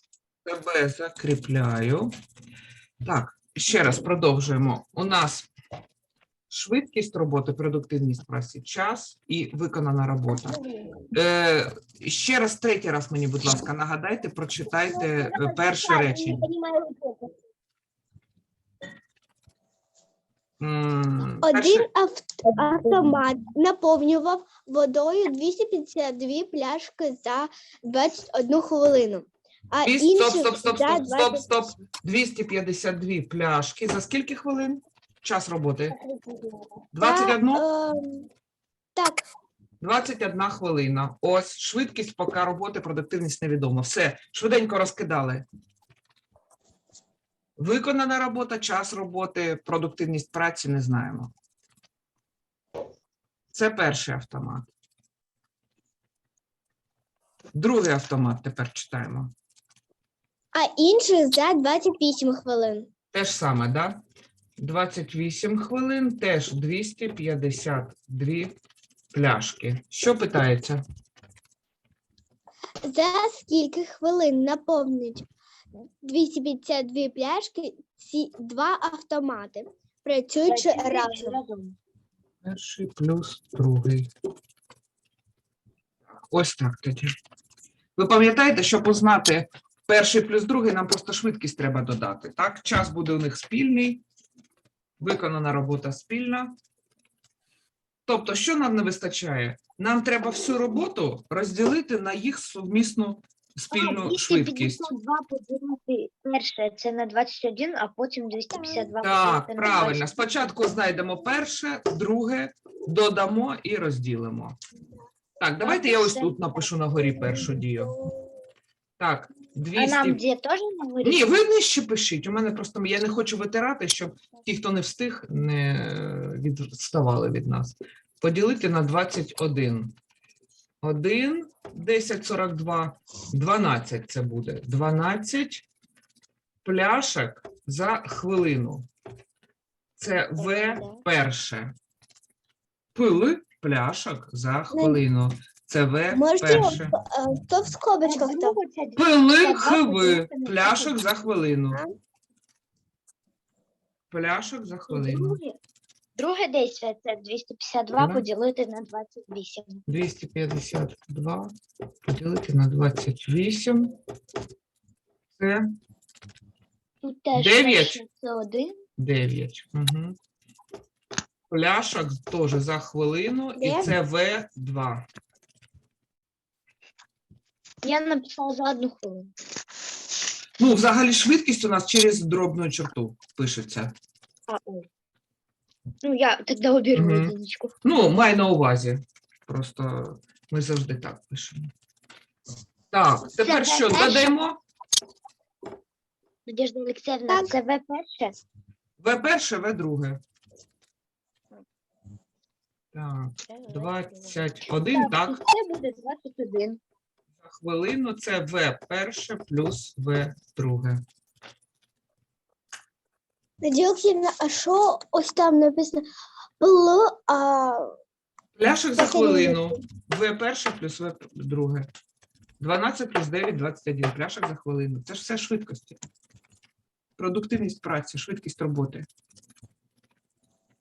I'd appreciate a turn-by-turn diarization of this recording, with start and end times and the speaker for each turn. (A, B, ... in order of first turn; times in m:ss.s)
0:00.4-0:02.1 A
0:03.0-0:05.5 A
0:06.5-0:10.6 A
0:11.1-0:16.5 A
0:14.8-0:17.3 B
0:20.6-0:21.9 A
0:21.4-0:31.6 B
0:29.8-0:36.0 A
0:35.9-0:36.7 C
0:36.9-0:37.6 A
0:37.0-0:38.3 B
0:39.0-0:39.2 B
0:39.8-0:45.4 A
0:47.6-0:51.3 A
0:53.5-0:54.7 A
0:57.6-0:59.3 A
1:00.5-1:02.9 B
1:03.1-1:04.0 A
1:04.6-1:08.6 A
1:09.1-1:10.8 A
1:12.8-1:15.3 B
1:16.0-1:21.4 B
1:20.5-1:21.8 C
1:22.4-1:24.1 A
1:26.2-1:27.1 A
1:28.0-1:34.0 A
1:35.0-1:36.6 A
1:38.1-1:44.9 A
1:43.7-1:50.6 C
1:49.0-1:54.6 A
1:55.4-1:58.0 A
1:55.6-1:57.4 C
1:57.2-1:58.3 B
1:59.0-2:00.2 A
1:59.8-2:01.3 C
2:01.0-2:10.0 A
2:10.8-2:15.7 A
2:16.6-2:18.9 A
2:20.0-2:21.7 A
2:20.4-2:21.0 C
2:23.0-2:26.9 A
2:24.7-2:25.0 B
2:26.1-2:28.6 B
2:28.0-2:31.0 C
2:29.0-2:31.8 A
2:34.1-2:35.4 A
2:34.9-2:35.6 C
2:36.2-2:39.8 C
2:38.0-2:38.2 A
2:39.9-2:41.5 A
2:42.0-2:43.9 A
2:45.4-2:45.6 A
2:47.0-2:48.8 C
2:47.3-2:48.0 A
2:49.0-2:50.2 A
2:51.5-2:55.1 A
2:53.6-2:54.0 B
2:57.8-2:59.3 C
3:00.6-3:03.9 A
3:04.5-3:04.9 C
3:06.0-3:07.7 C
3:06.9-3:07.3 A
3:07.8-3:11.7 A
3:12.9-3:14.6 A
3:13.4-3:14.3 C
3:16.5-3:18.4 C
3:19.0-3:20.2 A
3:22.9-3:25.4 A
3:23.5-3:26.8 C
3:27.4-3:31.0 A
3:33.6-3:36.0 B
3:36.6-3:37.9 B
3:38.6-3:41.9 A
3:39.0-3:39.8 B
3:42.6-3:46.0 A
3:47.2-3:49.1 A